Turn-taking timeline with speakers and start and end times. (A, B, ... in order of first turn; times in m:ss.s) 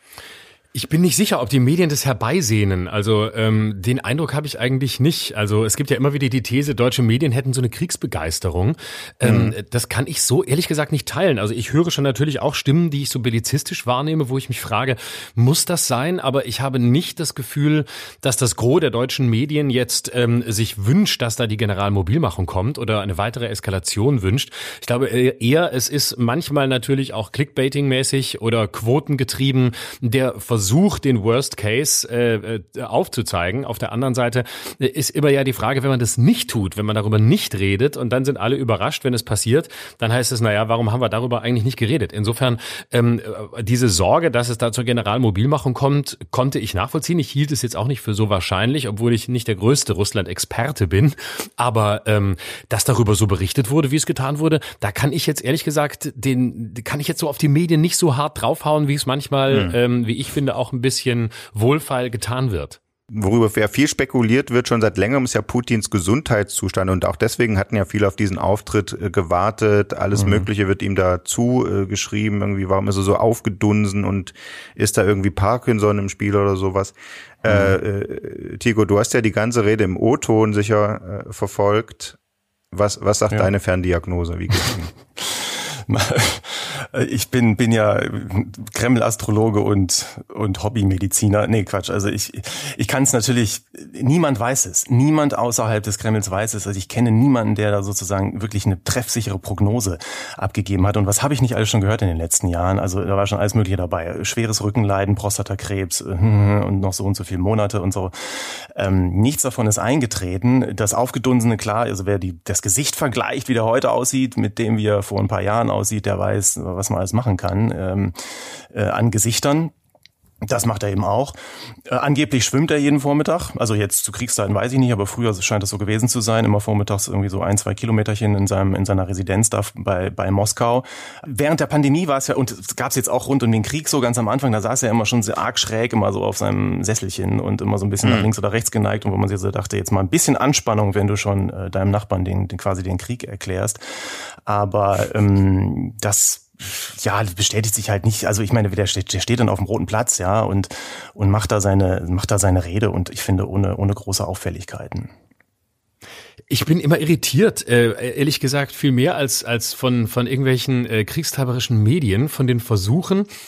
0:00.7-1:02.8 A
0:09.2-0:09.6 B
0:59.5-0:59.8 B
1:03.1-1:22.2 B
1:10.1-1:10.5 C
1:17.5-1:17.7 C
1:22.7-1:24.9 B
1:25.2-1:58.1 C
1:58.7-1:59.7 C
2:00.4-2:01.4 C
2:01.9-2:23.8 C
2:18.0-2:18.3 B
2:24.4-2:35.1 C
2:36.5-2:43.3 A